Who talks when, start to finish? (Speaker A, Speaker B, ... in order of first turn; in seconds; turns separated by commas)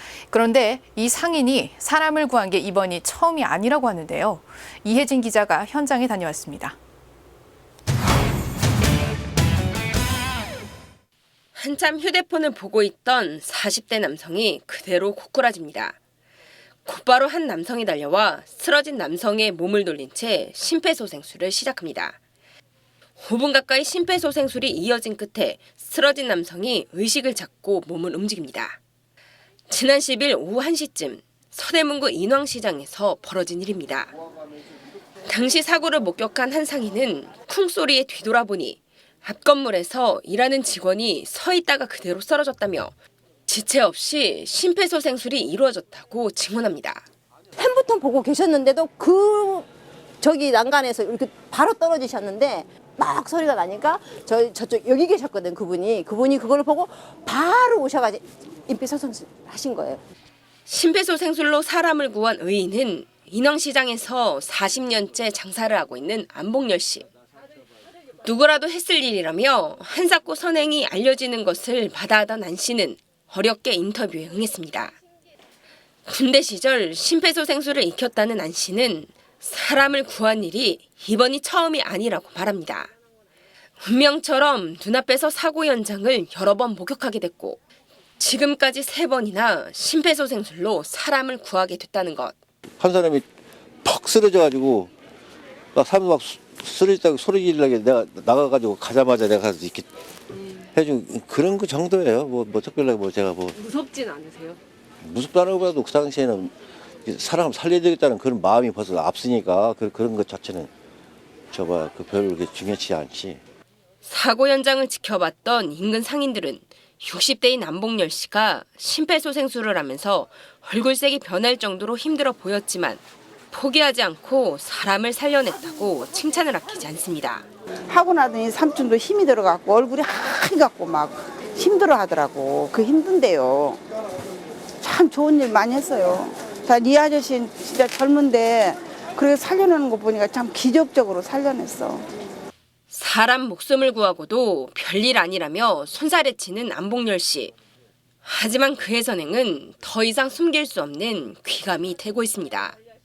Speaker A: 0.3-6.8, Speaker B: 11.5-16.0, Speaker B: 16.9-22.2, Speaker B: 23.2-28.8, Speaker B: 29.7-34.1, Speaker B: 35.2-42.9, Speaker B: 43.5-47.0, Speaker C: 47.5-49.6, Speaker C: 50.2-60.0, Speaker B: 60.7-67.0, Speaker B: 68.2-74.9, Speaker B: 76.1-82.9, Speaker B: 83.8-87.6, Speaker B: 88.2-92.3, Speaker D: 92.8-93.2, Speaker D: 93.8-94.9, Speaker D: 95.7-99.9, Speaker D: 100.6-103.7, Speaker D: 105.0-106.5, Speaker D: 107.0-110.7, Speaker D: 111.5-113.4, Speaker B: 114.0-127.5, Speaker E: 127.9-133.8, Speaker E: 134.8-142.1, Speaker B: 142.9-147.5, Speaker B: 148.2-152.8